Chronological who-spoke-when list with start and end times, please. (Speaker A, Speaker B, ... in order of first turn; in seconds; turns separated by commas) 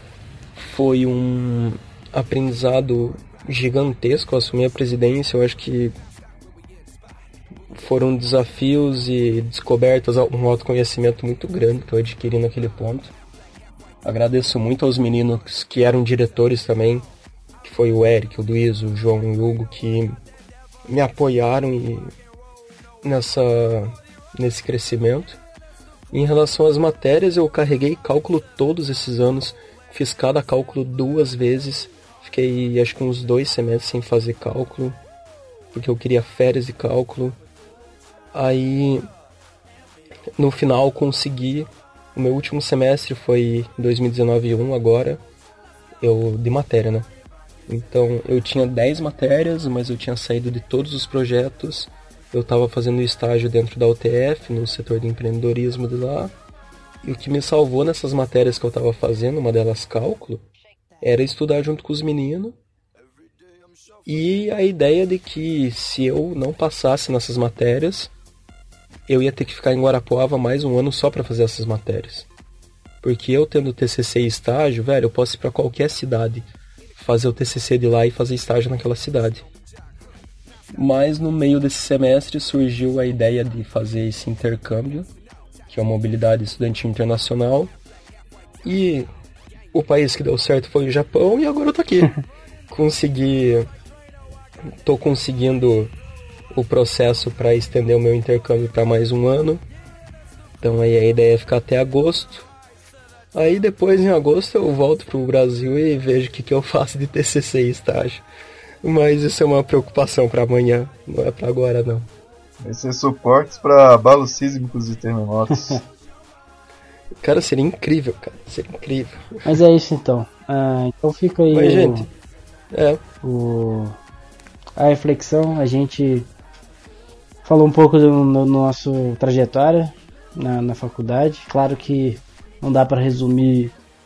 Speaker A: 0.6-5.9, Speaker A: 7.7-13.1, Speaker A: 14.0-17.1, Speaker A: 17.6-20.2, Speaker A: 20.9-22.1, Speaker A: 23.0-25.4, Speaker A: 26.1-35.0, Speaker A: 35.7-37.4, Speaker A: 38.3-39.0, Speaker A: 40.4-45.2, Speaker A: 46.0-47.1, Speaker A: 47.7-56.3, Speaker A: 57.0-60.4, Speaker A: 61.0-62.5, Speaker A: 64.0-68.1, Speaker A: 69.1-72.3, Speaker A: 73.0-79.5, Speaker A: 80.7-85.1, Speaker A: 85.7-87.7, Speaker A: 88.6-89.1, Speaker A: 89.7-93.7, Speaker A: 94.8-95.9, Speaker A: 96.5-99.6, Speaker A: 100.6-102.5, Speaker A: 103.3-108.2, Speaker A: 108.8-112.1, Speaker B: 112.6-115.8, Speaker C: 115.5-115.8, Speaker A: 117.2-119.6, Speaker C: 119.5-122.1, Speaker A: 121.5-122.1, Speaker A: 122.7-123.0, Speaker C: 123.2-124.0, Speaker C: 124.8-126.3, Speaker C: 127.5-133.7